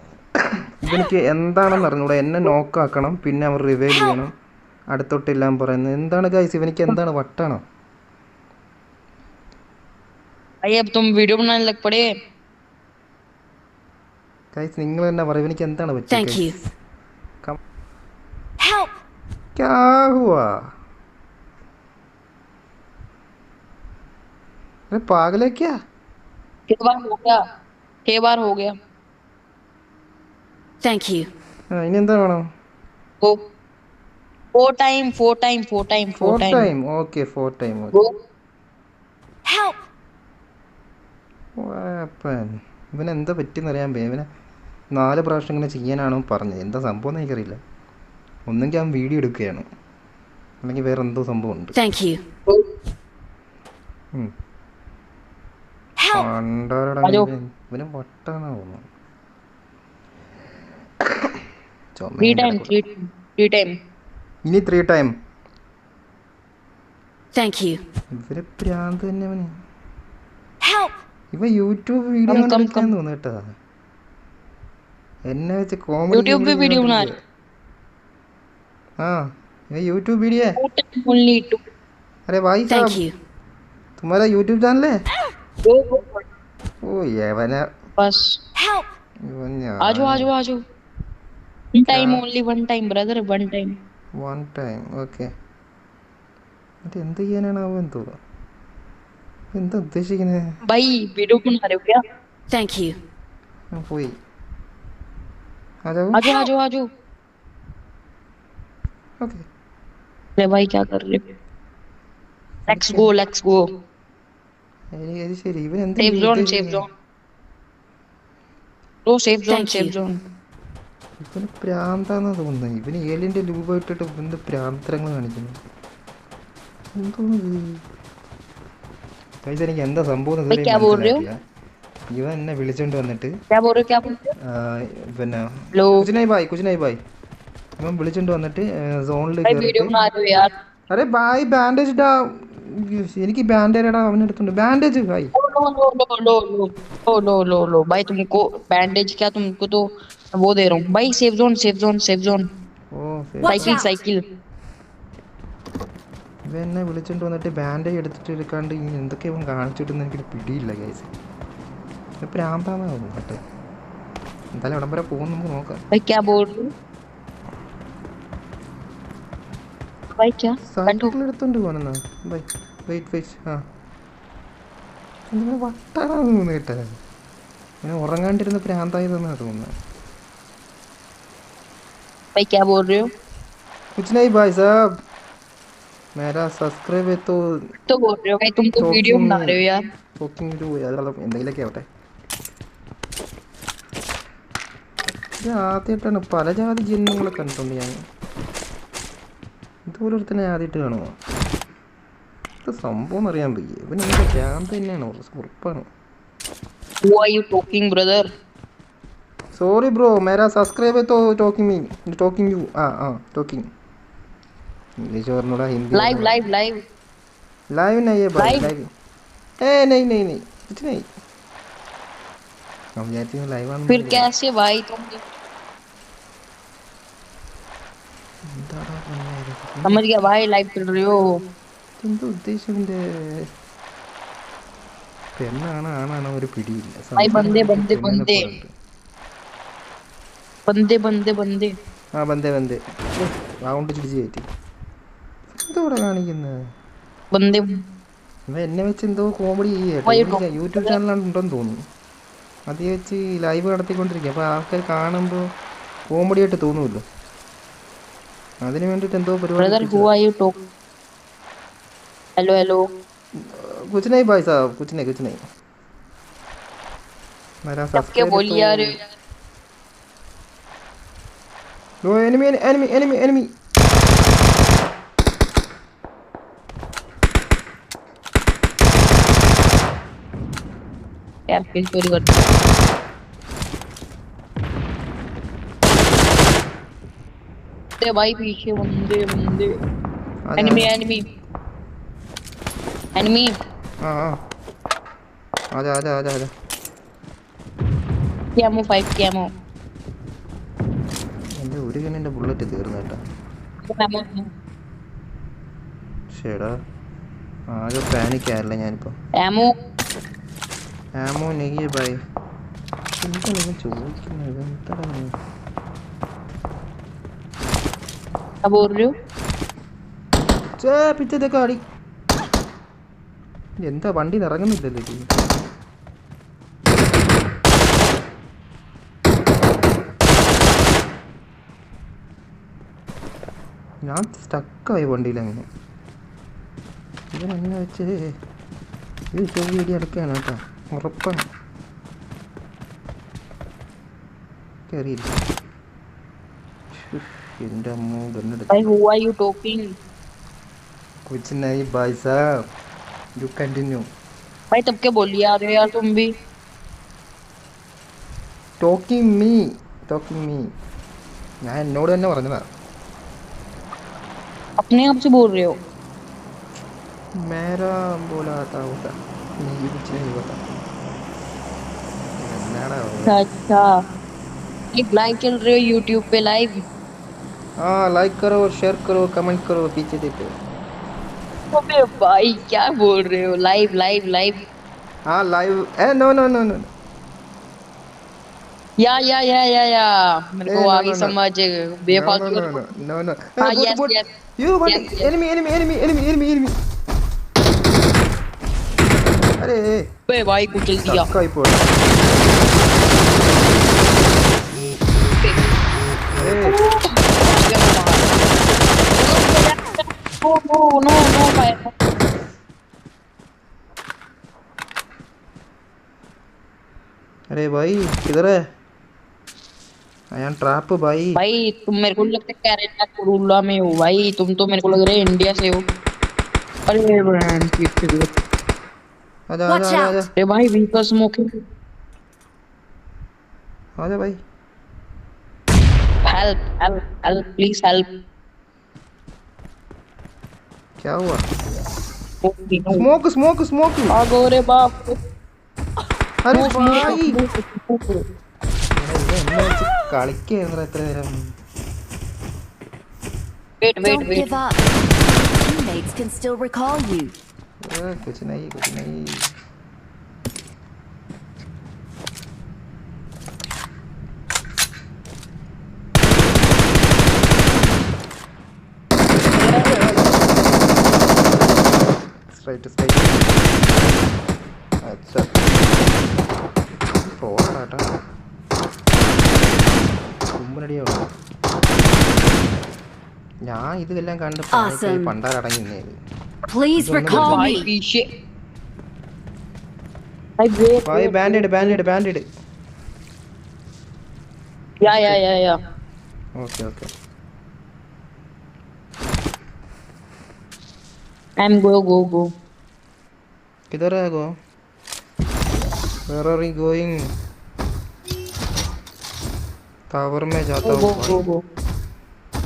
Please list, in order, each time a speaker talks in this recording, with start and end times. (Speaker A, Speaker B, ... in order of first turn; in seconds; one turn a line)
Speaker A: 0.8-4.3
Speaker A: 4.9-7.6
Speaker B: 10.6-12.1
Speaker A: 14.5-16.5
Speaker C: 16.1-16.6
Speaker C: 18.6-18.9
Speaker A: 19.6-20.6
Speaker A: 24.9-25.7
Speaker B: 26.7-27.4
Speaker B: 28.1-28.7
Speaker C: 30.8-31.3
Speaker A: 31.7-32.4
Speaker B: 34.5-36.7
Speaker A: 36.2-38.0
Speaker C: 39.4-39.8
Speaker A: 41.6-44.3
Speaker A: 44.9-47.6
Speaker A: 48.5-49.6
Speaker A: 50.6-51.8
Speaker C: 51.7-52.2
Speaker C: 56.0-56.3
Speaker A: 56.1-58.8
Speaker B: 57.0-57.3
Speaker A: 62.0-62.8
Speaker B: 62.2-63.7
Speaker A: 64.5-65.1
Speaker C: 67.3-67.8
Speaker A: 68.2-69.5
Speaker C: 70.6-70.9
Speaker A: 71.3-73.4
Speaker B: 72.3-72.9
Speaker A: 75.3-77.1
Speaker B: 76.1-77.1
Speaker A: 79.0-80.6
Speaker B: 80.6-81.6
Speaker A: 82.3-83.0
Speaker C: 82.7-83.1
Speaker A: 84.0-84.9
Speaker B: 85.7-86.2
Speaker A: 86.8-87.7
Speaker B: 88.0-88.4
Speaker C: 88.6-88.8
Speaker A: 89.3-90.3
Speaker B: 89.8-90.6
Speaker B: 91.8-93.7
Speaker A: 91.9-92.2
Speaker A: 94.2-95.3
Speaker A: 96.8-98.0
Speaker A: 99.5-100.4
Speaker B: 100.7-102.0
Speaker C: 102.5-103.0
Speaker A: 103.7-104.1
Speaker A: 105.9-106.3
Speaker B: 106.1-106.8
Speaker A: 109.2-109.5
Speaker B: 110.4-111.2
Speaker A: 112.7-113.1
Speaker B: 112.7-113.6
Speaker A: 115.0-116.8
Speaker B: 116.0-116.9
Speaker B: 119.0-120.2
Speaker C: 119.5-119.9
Speaker A: 121.2-125.5
Speaker A: 127.0-127.8
Speaker A: 129.4-131.3
Speaker B: 130.5-131.2
Speaker A: 132.1-133.3
Speaker B: 133.5-134.3
Speaker A: 134.4-135.4
Speaker A: 136.0-137.0
Speaker A: 137.8-139.9
Speaker B: 139.4-140.5
Speaker A: 140.9-145.3
Speaker B: 145.3-152.4
Speaker A: 152.9-153.8
Speaker C: 153.4-153.9
Speaker B: 153.5-154.2
Speaker A: 156.5-161.1
Speaker A: 162.2-163.4
Speaker A: 164.5-165.8
Speaker B: 165.9-166.6
Speaker B: 170.2-171.1
Speaker A: 170.7-173.6
Speaker A: 175.3-176.8
Speaker A: 177.8-179.7
Speaker B: 182.3-183.0
Speaker A: 183.9-184.7
Speaker A: 186.2-187.5
Speaker B: 187.9-189.8
Speaker A: 188.8-189.5
Speaker A: 190.2-191.8
Speaker A: 195.4-198.0
Speaker A: 199.9-201.1
Speaker A: 202.6-205.9
Speaker B: 207.0-208.3
Speaker A: 209.5-213.7
Speaker A: 215.0-216.3
Speaker B: 215.9-216.8
Speaker A: 217.7-218.9
Speaker B: 218.4-218.7
Speaker A: 219.6-221.1
Speaker A: 223.0-224.3
Speaker B: 223.9-225.2
Speaker A: 228.5-230.0
Speaker B: 229.8-231.2
Speaker A: 232.0-233.4
Speaker A: 235.3-238.7
Speaker B: 237.2-238.5
Speaker B: 240.7-241.7
Speaker A: 242.2-244.4
Speaker A: 245.6-246.6
Speaker B: 247.3-247.7
Speaker A: 248.5-251.8
Speaker B: 250.1-250.9
Speaker A: 252.7-255.5
Speaker A: 256.1-257.0
Speaker A: 258.6-260.1
Speaker B: 259.6-260.5
Speaker B: 262.4-262.8
Speaker A: 263.4-265.4
Speaker A: 267.6-269.0
Speaker B: 267.9-269.0
Speaker A: 272.0-273.5
Speaker B: 281.5-282.4
Speaker B: 288.0-289.7
Speaker A: 290.5-290.9
Speaker B: 290.6-291.2
Speaker B: 293.1-293.5
Speaker A: 294.0-294.4
Speaker A: 295.7-296.5
Speaker B: 298.6-299.5
Speaker A: 301.6-303.2
Speaker B: 303.9-304.4
Speaker A: 306.3-306.7
Speaker A: 307.7-309.1
Speaker B: 309.4-309.7
Speaker A: 311.2-312.2
Speaker A: 313.2-315.3
Speaker B: 318.6-319.1
Speaker A: 320.8-321.8
Speaker A: 323.8-325.3
Speaker A: 334.1-335.6
Speaker A: 337.3-338.3
Speaker A: 339.3-341.4
Speaker A: 344.9-345.3
Speaker A: 346.9-348.9
Speaker B: 348.7-349.9
Speaker A: 351.3-352.4
Speaker A: 353.4-354.1
Speaker B: 354.7-356.3
Speaker A: 358.8-360.7
Speaker A: 361.6-362.6
Speaker B: 364.8-365.8
Speaker A: 367.4-370.6
Speaker A: 372.4-373.4
Speaker B: 373.2-373.9
Speaker B: 374.9-376.8
Speaker A: 377.8-380.5
Speaker B: 381.7-384.6
Speaker A: 385.3-386.9
Speaker B: 389.0-392.8
Speaker A: 390.6-391.4
Speaker A: 392.1-396.7
Speaker B: 393.6-394.3
Speaker B: 394.9-395.3
Speaker A: 399.6-400.0
Speaker B: 400.3-401.3
Speaker A: 401.0-401.9
Speaker B: 405.4-405.6
Speaker A: 406.4-406.8
Speaker B: 406.6-408.3
Speaker B: 409.1-411.9
Speaker A: 417.5-418.5
Speaker A: 420.3-421.4
Speaker B: 421.4-425.8
Speaker B: 426.9-428.3
Speaker A: 429.5-430.3
Speaker C: 429.7-430.2
Speaker B: 430.4-431.5
Speaker A: 434.0-434.4
Speaker B: 436.2-438.1
Speaker A: 441.0-441.4
Speaker B: 442.4-443.0
Speaker A: 442.9-444.1
Speaker B: 444.1-445.2
Speaker A: 446.4-447.4
Speaker B: 446.5-448.2
Speaker A: 448.9-451.5
Speaker B: 453.8-454.5
Speaker C: 454.0-454.8
Speaker C: 455.4-457.3
Speaker A: 457.9-459.4
Speaker B: 469.5-470.1
Speaker A: 469.9-470.2
Speaker A: 472.5-473.8
Speaker A: 475.0-475.6
Speaker A: 477.2-478.1
Speaker A: 480.6-481.3
Speaker A: 483.7-486.1
Speaker C: 484.7-485.3
Speaker C: 486.7-487.9
Speaker A: 486.9-487.7
Speaker B: 487.3-488.2
Speaker B: 490.6-492.0
Speaker A: 491.1-492.4
Speaker B: 495.0-495.7
Speaker A: 495.0-495.4
Speaker A: 496.6-497.1
Speaker B: 501.6-502.4
Speaker A: 503.9-504.5
Speaker A: 506.3-507.2
Speaker A: 510.1-511.4
Speaker B: 510.8-511.6